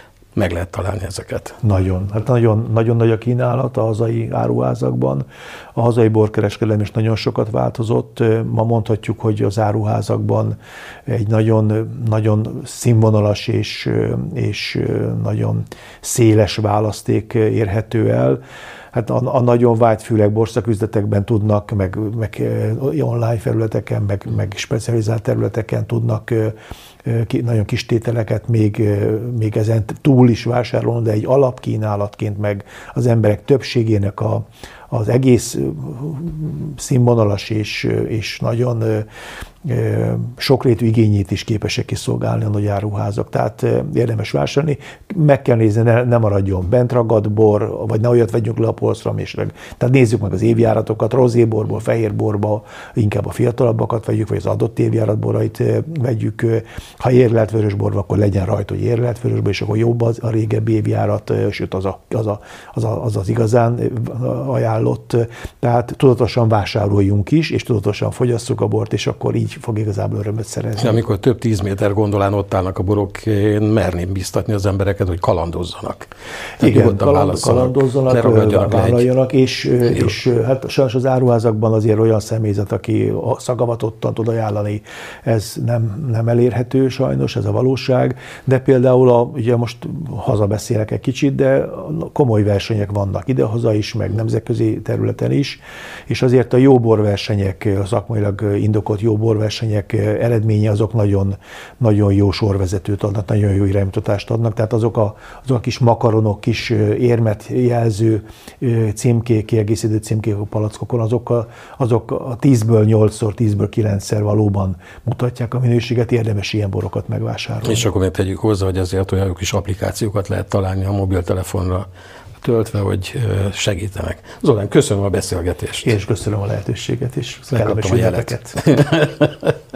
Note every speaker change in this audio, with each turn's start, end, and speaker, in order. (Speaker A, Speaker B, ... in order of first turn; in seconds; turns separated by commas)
Speaker A: 0.4-1.6, Speaker B: 1.6-18.4, Speaker B: 18.9-39.1, Speaker B: 39.6-71.0, Speaker A: 70.8-79.0, Speaker B: 76.6-117.9, Speaker A: 117.6-121.9, Speaker A: 122.4-125.9, Speaker B: 125.8-128.6, Speaker A: 127.5-129.6